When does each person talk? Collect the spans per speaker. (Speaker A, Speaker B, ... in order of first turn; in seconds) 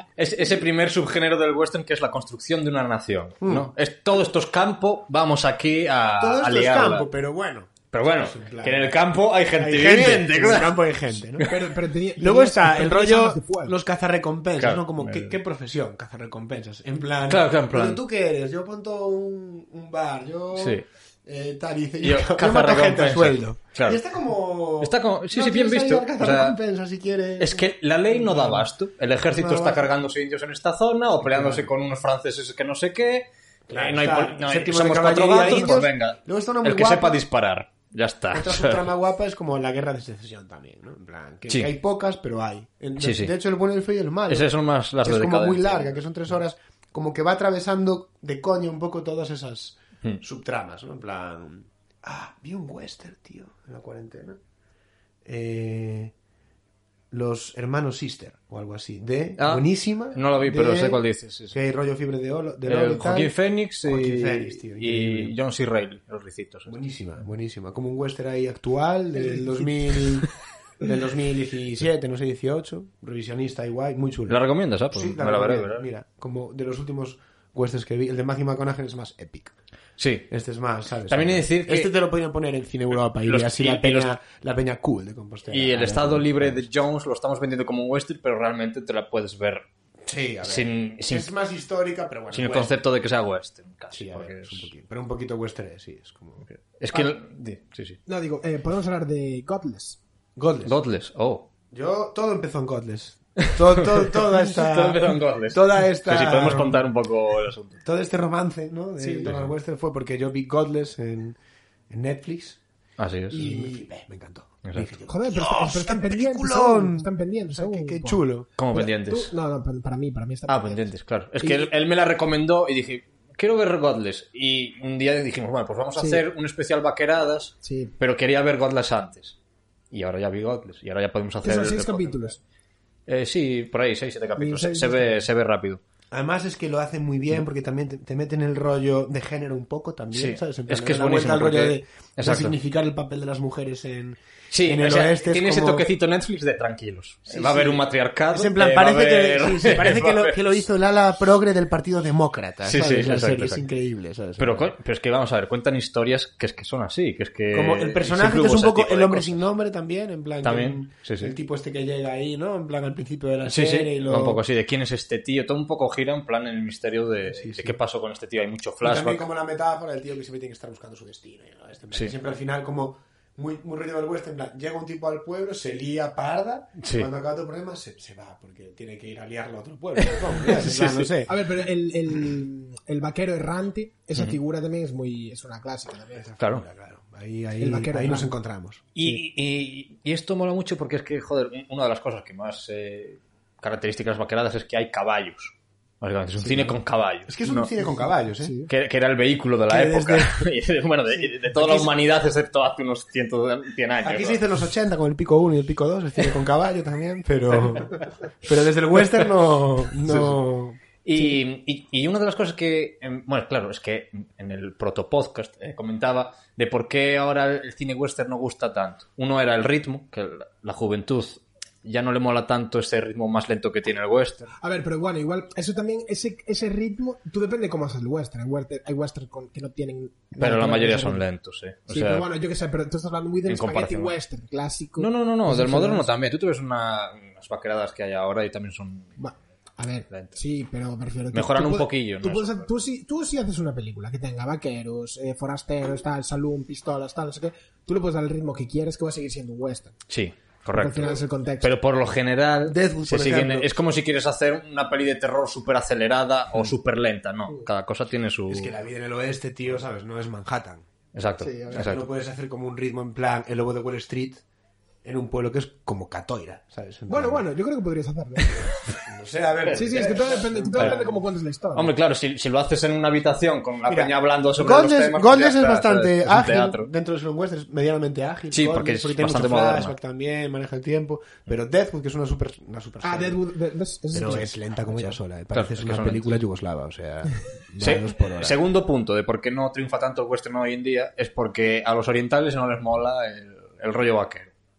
Speaker A: 0.2-7.1, 7.9-11.5, 14.6-15.4, 17.3-18.0, 20.6-20.8, 22.0-24.0, 24.8-26.6, 27.4-38.9, 43.0-43.3, 44.3-45.9, 59.4-61.6, 62.6-66.7, 74.3-75.8, 80.0-80.3, 81.1-81.9, 83.2-84.1, 85.5-89.7, 90.4-91.3, 92.3-94.7, 96.5-98.0, 100.6-101.5, 103.4-107.8, 109.2-109.5, 113.0-113.7, 114.6-114.9, 118.6-119.3, 120.5-129.4, 129.9-132.3, 133.1-135.8, 140.1-142.6, 144.5-150.4, 152.6-153.6, 154.4-159.4, 160.4-161.3, 163.5-169.2, 176.8-177.1, 180.0-181.1, 186.4-186.6, 188.9-197.7, 198.7-204.4, 210.1-210.3, 211.0-224.5, 230.4-232.3, 233.5-234.1, 235.0-239.2, 240.1-240.3, 241.3-242.7, 250.1-258.7, 261.1-262.1, 269.7-271.1, 271.7-276.9, 278.5-279.9, 285.5-286.3, 287.8-294.5
Speaker B: 3.4-3.7, 6.2-8.9, 9.6-11.5, 12.2-28.7, 29.3-29.9, 31.2-31.7, 33.7-37.2, 38.3-44.5, 45.0-54.4, 55.2-56.1, 57.1-65.3, 66.7-74.4, 74.9-79.5, 80.3-86.7, 90.0-92.7, 93.9-96.4, 100.3-100.8, 101.7-106.8, 107.8-111.4, 111.9-112.6, 113.3-118.5, 136.1-145.9, 147.3-154.7, 157.5-164.4, 167.2-167.8, 168.8-181.4, 186.1-188.9, 197.3-198.6, 199.7-200.5, 201.1-201.9, 204.0-210.8, 252.7-253.7, 258.5-260.9, 261.7-264.4, 265.0-267.4, 269.0-271.2, 273.9-283.4, 284.1-288.6
Speaker C: 11.4-13.7, 98.0-100.0, 109.0-109.3, 115.1-121.7, 126.0-126.2, 127.6-127.9, 131.4-132.4, 134.4-135.2, 181.2-186.2, 187.6-188.3, 198.4-198.7, 224.6-231.2, 231.9-236.1, 239.2-249.9, 250.7-251.7, 261.4-261.9, 267.1-268.7, 269.7-271.9, 283.0-284.5